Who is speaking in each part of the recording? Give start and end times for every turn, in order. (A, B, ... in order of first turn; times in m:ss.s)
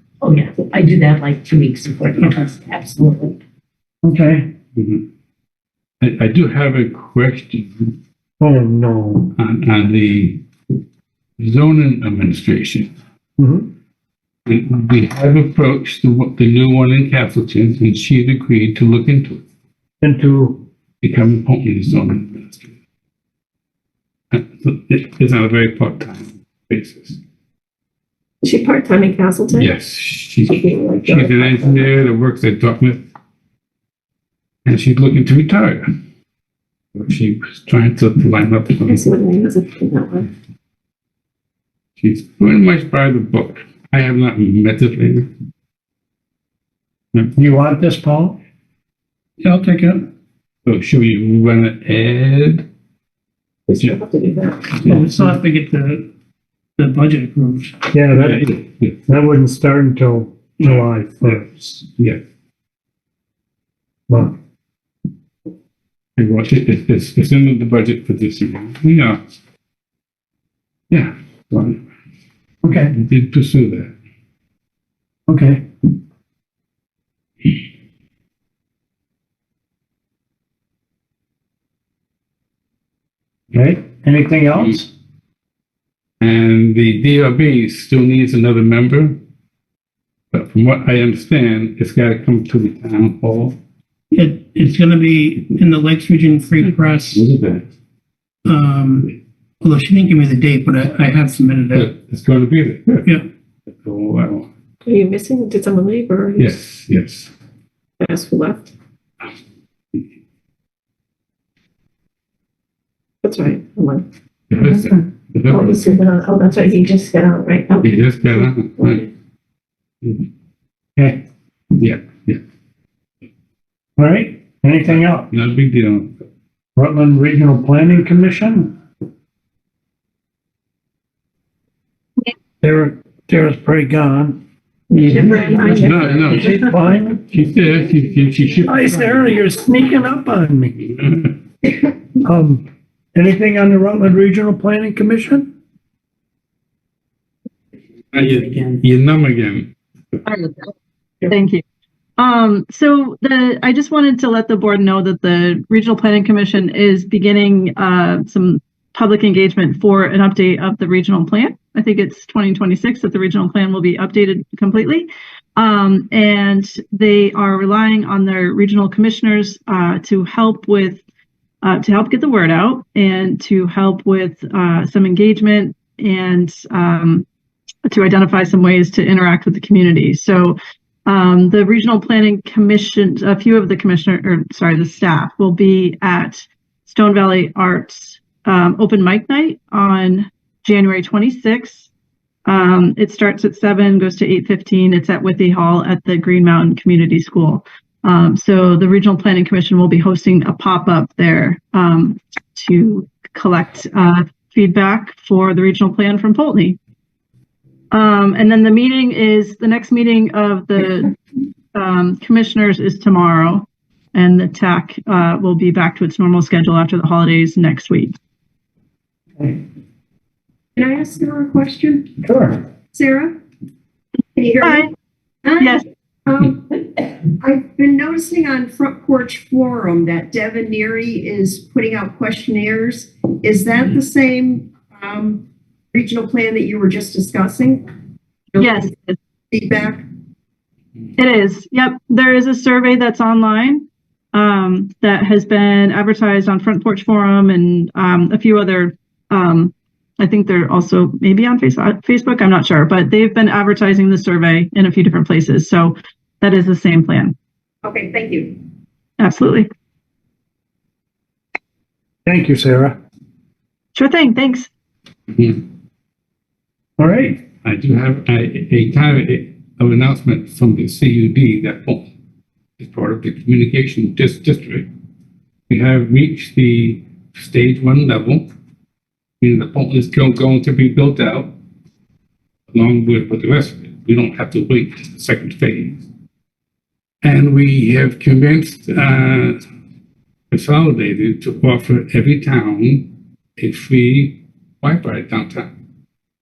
0:00.2-0:03.4 A
0:04.0-0:04.5 B
0:04.8-0:05.0 C
0:06.0-0:08.0 C
0:08.4-0:09.3 B
0:09.4-0:10.4 C
0:11.4-0:12.9 C
0:13.4-0:13.7 B
0:14.5-0:19.4 C
0:20.0-0:20.6 B
0:21.0-0:22.7 C
0:24.3-0:27.2 C
0:28.4-0:29.7 D
0:29.6-0:33.0 C
0:30.5-0:31.9 D
0:34.7-0:35.9 C
0:37.0-0:39.1 C
0:38.8-0:40.3 D
0:42.0-0:45.3 C
0:47.3-0:48.4 B
0:49.4-0:50.1 E
0:50.7-0:52.6 C
0:53.7-0:54.8 D
0:54.8-0:56.1 E
0:54.8-0:55.1 C
0:56.8-0:57.9 E
0:57.9-0:58.5 B
0:58.2-0:59.0 C
0:59.0-1:01.8 B
1:04.1-1:04.4 B
1:06.2-1:09.2 C
1:10.9-1:11.8 C
1:12.6-1:13.0 B
1:12.9-1:13.9 C
1:15.3-1:15.6 B
1:23.5-1:24.9 B
1:26.2-1:29.2 C
1:30.3-1:33.6 C
1:34.1-1:37.3 E
1:37.1-1:37.7 C
1:38.4-1:41.9 E
1:41.7-1:43.0 C
1:42.9-1:43.2 E
1:43.8-1:44.5 C
1:44.8-1:46.5 D
1:46.4-1:47.3 C
1:48.0-1:48.7 D
1:53.2-1:54.0 D
1:54.5-1:55.9 C
1:55.5-1:59.1 D
1:57.8-1:59.0 C
2:01.8-2:02.4 C
2:04.0-2:05.3 B
2:05.3-2:06.2 C
2:06.8-2:08.7 B
2:12.6-2:14.4 B
2:14.9-2:16.4 D
2:15.4-2:15.7 B
2:15.7-2:19.4 C
2:16.3-2:17.2 B
2:18.6-2:20.8 B
2:20.9-2:21.4 C
2:22.2-2:25.5 B
2:28.1-2:29.7 C
2:30.3-2:30.7 F
2:31.2-2:31.6 F
2:32.2-2:51.0 F
2:51.6-2:57.3 F
2:57.9-3:11.9 F
3:12.5-3:26.8 F
3:27.9-3:31.1 F
3:31.8-3:38.2 F
3:40.8-3:42.1 G
3:42.2-3:42.6 B
3:42.9-3:43.4 G
3:44.4-3:44.9 G
3:44.6-3:44.9 F
3:45.4-3:57.8 G
3:58.5-3:58.8 G
3:58.6-3:59.2 F
3:59.5-4:00.0 G
4:01.2-4:17.4 F
4:17.8-4:18.6 G
4:19.2-4:19.7 F
4:22.3-4:23.0 B
4:23.9-4:24.7 F
4:25.3-4:25.6 C
4:27.0-4:27.4 B
4:27.6-4:32.1 C
4:32.8-4:34.9 C
4:35.7-4:38.5 C
4:39.4-4:41.5 C
4:42.7-4:46.0 C
4:47.2-4:49.6 C
4:50.5-4:55.7 C